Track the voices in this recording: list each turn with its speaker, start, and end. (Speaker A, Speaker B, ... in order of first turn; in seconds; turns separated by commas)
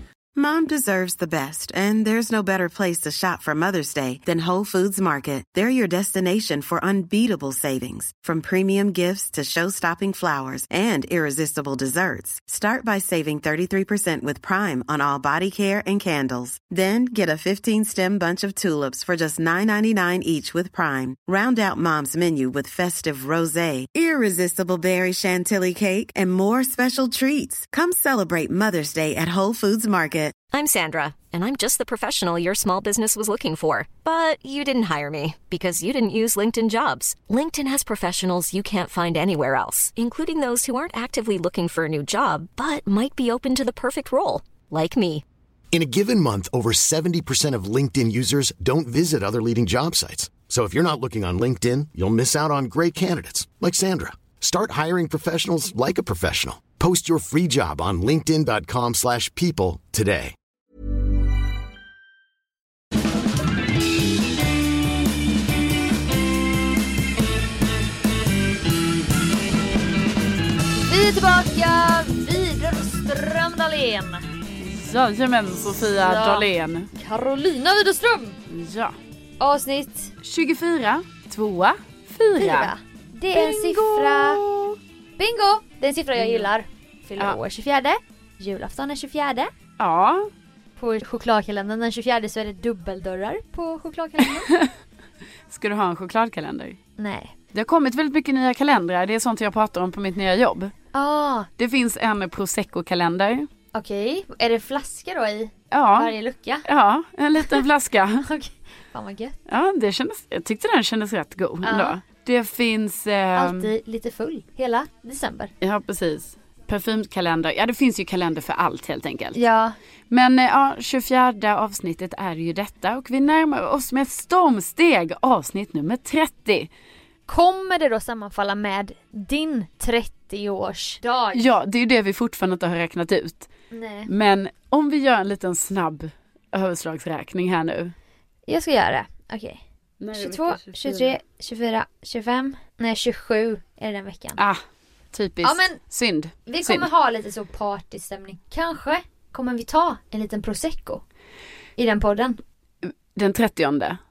Speaker A: 0.3-30.4, Speaker B: 30.5-45.2, Speaker C: 45.7-60.4, Speaker D: 70.8-74.3, Speaker E: 74.6-76.9, Speaker D: 76.0-78.4, Speaker E: 78.5-79.0, Speaker D: 79.4-80.1, Speaker E: 80.2-82.7, Speaker D: 82.4-84.4, Speaker E: 83.3-84.8, Speaker D: 85.2-89.5, Speaker E: 86.2-86.5, Speaker E: 89.8-90.3, Speaker D: 90.8-94.5, Speaker E: 94.4-94.7, Speaker E: 95.5-96.8, Speaker D: 97.0-97.3, Speaker E: 97.5-100.7, Speaker D: 100.9-101.5, Speaker E: 101.6-103.5, Speaker D: 103.7-106.7, Speaker E: 105.7-106.1, Speaker E: 106.7-108.3, Speaker D: 108.2-109.4, Speaker E: 109.5-113.7, Speaker D: 111.6-112.0, Speaker D: 113.3-115.5, Speaker E: 115.6-119.4, Speaker D: 119.3-119.8, Speaker E: 120.1-126.7, Speaker D: 127.3-131.5, Speaker E: 131.3-133.5, Speaker D: 133.7-134.1, Speaker E: 134.1-137.9, Speaker D: 138.5-139.6, Speaker E: 140.0-141.1, Speaker D: 140.1-144.4, Speaker E: 145.1-146.9, Speaker D: 145.4-145.8, Speaker D: 146.5-151.0, Speaker D: 151.8-152.4, Speaker E: 152.8-154.0